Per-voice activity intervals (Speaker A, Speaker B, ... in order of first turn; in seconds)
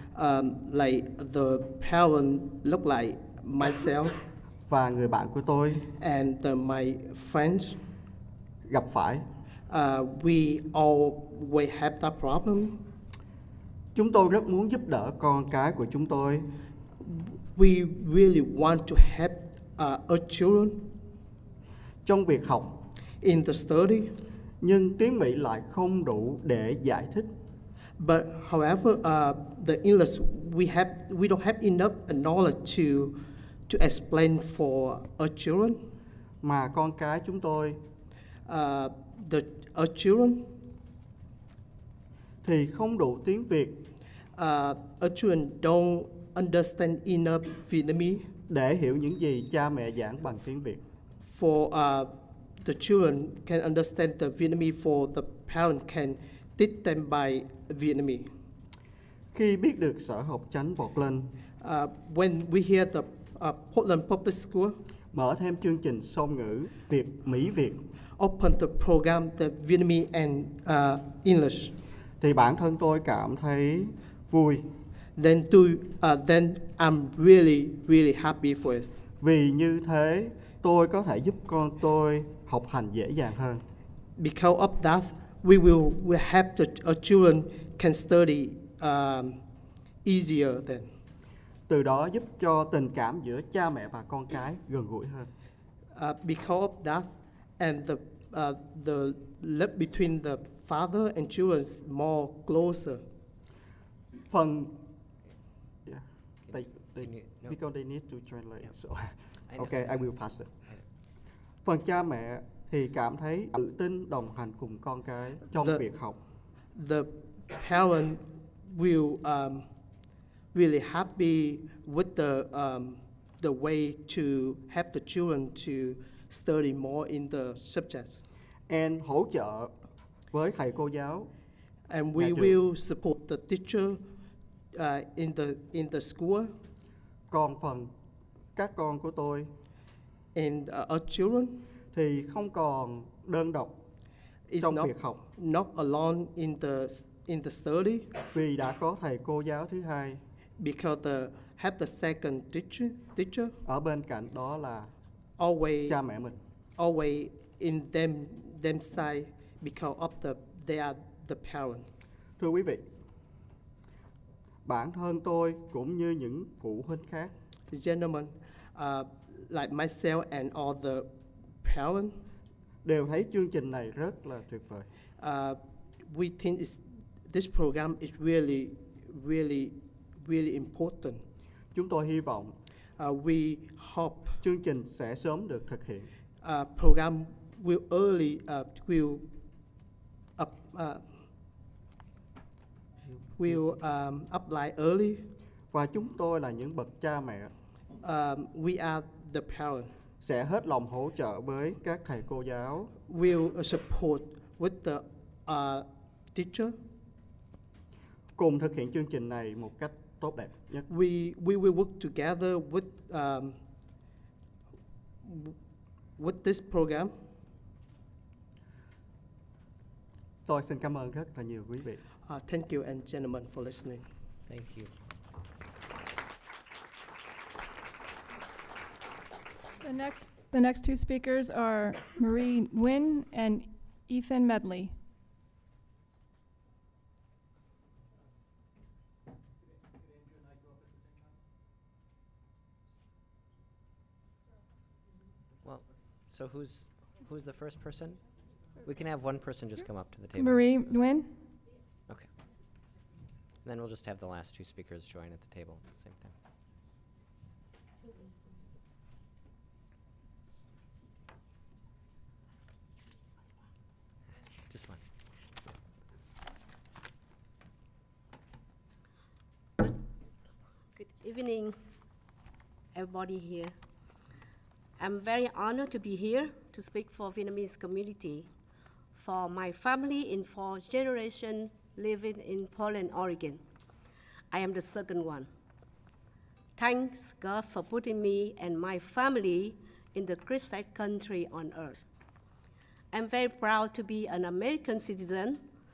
Speaker A: 0.1-4.1, 6.0-7.8, 9.7-12.8, 17.0-20.9, 23.2-24.1, 28.0-33.2, 33.7-35.8, 38.5-40.5, 44.4-48.2, 51.2-52.1, 52.6-58.3, 61.6-64.8, 68.2-71.7, 75.2-79.0, 84.2-89.4, 90.0-90.9, 95.9-103.0, 115.5-115.8, 116.7-119.7, 120.5-128.2, 131.9-134.0, 134.7-136.5, 140.3-141.6, 144.5-148.1, 150.6-153.6, 155.4-156.0, 156.8-161.8, 167.7-171.1, 171.6-172.1, 175.2-181.2, 183.0-184.4, 186.4-189.3, 190.4-191.0, 193.4-195.3, 198.0-199.9, 203.1-206.8, 210.9-213.6, 215.2-215.6, 216.2-217.1, 222.3-224.1
Speaker B: 4.7-5.9, 8.7-9.2, 13.9-16.5, 22.1-22.8, 24.6-27.3, 36.4-37.8, 42.4-43.9, 48.5-50.8, 59.3-61.3, 65.1-67.8, 72.2-74.7, 79.2-83.6, 91.7-95.3, 104.3-104.8, 105.9-110.5, 111.7-116.2, 128.7-129.7, 130.3-131.3, 132.2-132.6, 137.3-137.9, 138.6-139.5, 141.9-143.8, 144.6-145.2, 148.3-150.2, 153.7-154.9, 155.9-156.4, 162.4-162.8, 164.7-167.3, 172.8-174.9, 181.7-182.6, 184.4-186.1, 195.7-197.5, 200.2-202.9, 208.4-210.9, 220.5-222.0
Speaker C: 106.5-107.6, 109.5-110.8, 224.5-224.9, 245.6-248.2, 248.8-250.6, 253.6-256.3, 264.7-265.0
Speaker D: 229.8-234.9, 250.3-251.3
Speaker E: 271.0-271.8, 272.9-273.7, 275.0-278.5, 279.1-283.6, 284.5-285.5, 286.8-292.0, 293.1-295.6